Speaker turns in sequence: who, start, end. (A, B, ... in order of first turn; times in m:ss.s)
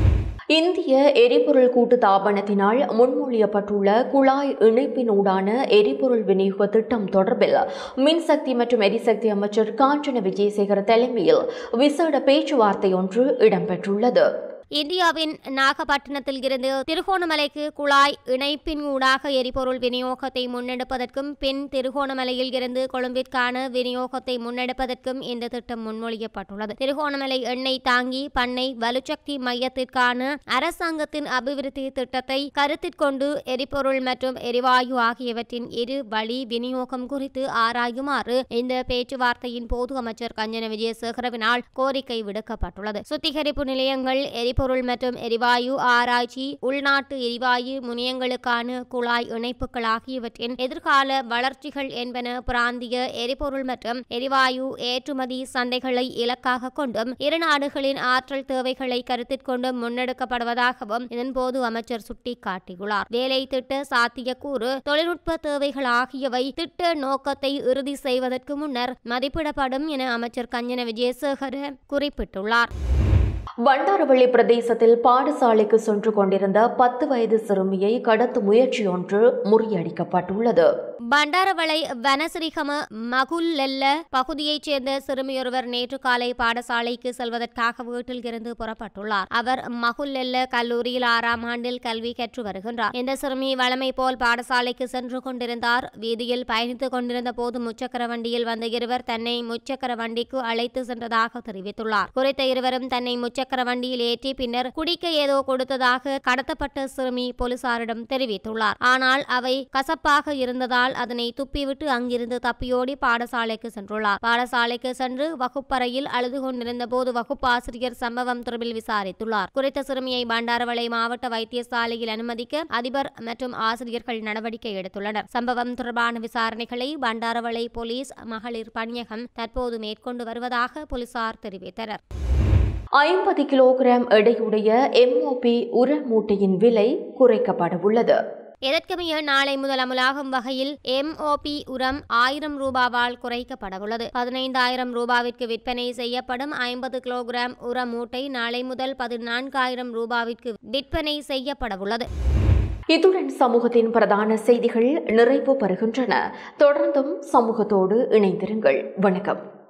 0:00.5-0:14.2 A
0:14.8-1:12.7 B
1:13.7-1:20.7 A
1:21.1-2:12.0 B
2:13.0-2:18.2 A
2:18.6-2:32.1 B
2:32.9-2:39.4 A